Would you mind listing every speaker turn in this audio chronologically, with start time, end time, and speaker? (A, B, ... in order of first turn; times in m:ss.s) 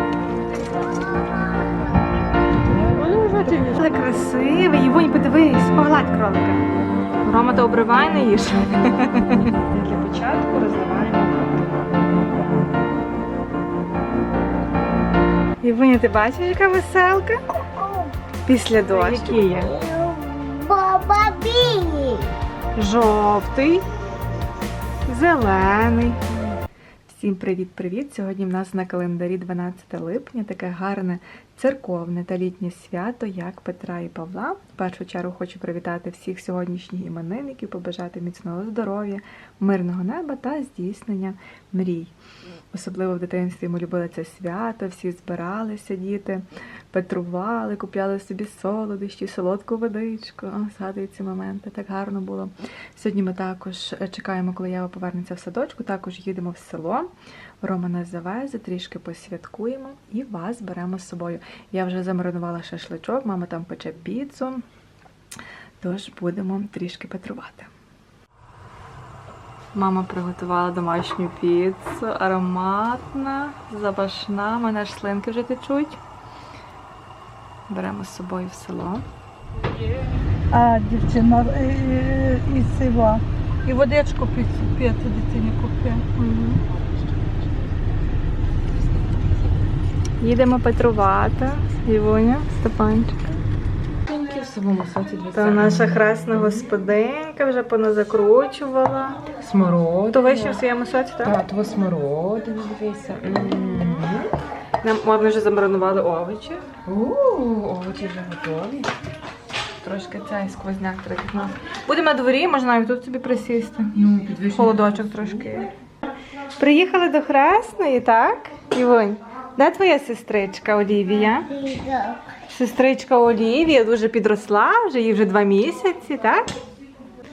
0:02.8-0:03.1 A
0:03.3-0:06.6 B
0:07.2-0:11.8 B
0:15.6-0:17.4 B
0:17.8-0:18.1 C
0:18.4-0:19.7 B
0:18.9-0:19.8 A
0:19.7-0:22.3 C
0:22.8-0:23.8 B
0:25.1-0:26.2 B
0:27.1-0:42.1 B
0:42.7-0:57.1 B
0:57.6-1:04.6 B
1:05.8-1:07.7 B
1:09.7-1:16.0 B
1:17.7-1:19.0 B
1:19.7-1:20.2 A
1:20.5-1:26.0 D
1:26.1-1:26.6 B
1:30.2-1:33.3 B
1:34.0-1:36.4 A
1:35.3-1:39.2 B
1:39.4-1:40.6 A
1:40.1-1:41.4 B
1:41.2-1:44.3 A
1:43.5-1:44.1 B
1:44.8-1:46.6 B
1:46.8-1:48.9 A
1:49.8-1:55.7 B
1:54.0-1:55.5 A
1:56.6-2:01.5 B
2:01.5-2:02.2 C
2:02.5-2:06.5 B